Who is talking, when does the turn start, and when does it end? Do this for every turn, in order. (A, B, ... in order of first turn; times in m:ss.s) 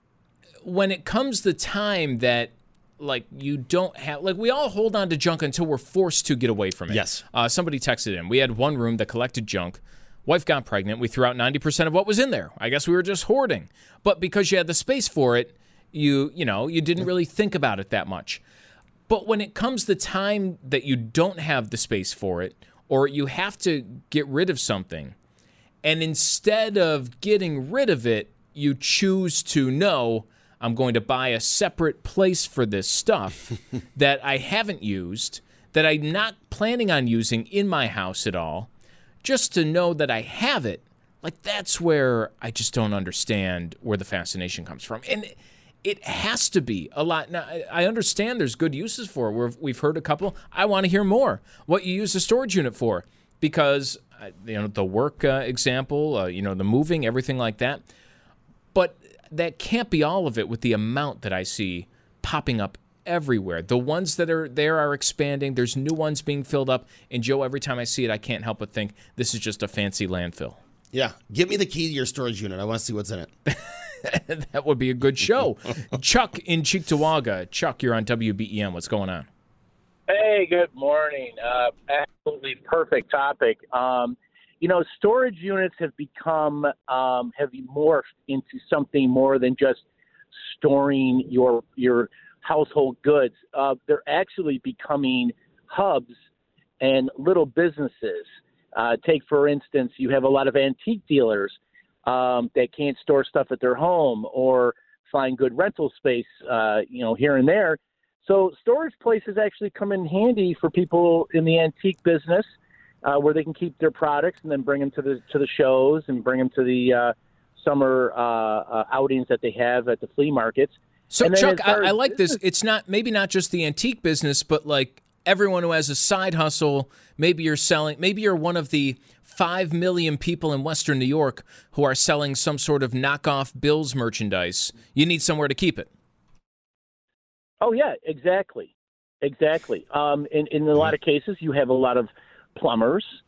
0:00.6-0:18.4 A
0:06.9-0:07.2 B
0:19.1-0:25.2 A
0:25.8-0:38.7 A
0:39.2-0:57.8 A
0:58.7-1:10.6 A
1:10.9-1:13.3 B
1:13.5-1:19.3 A
1:20.1-1:29.8 C
1:30.6-1:36.1 C
1:36.8-1:52.5 C
1:53.0-2:02.4 C
2:01.1-2:15.9 A
2:17.6-2:18.7 C
2:19.2-2:23.1 C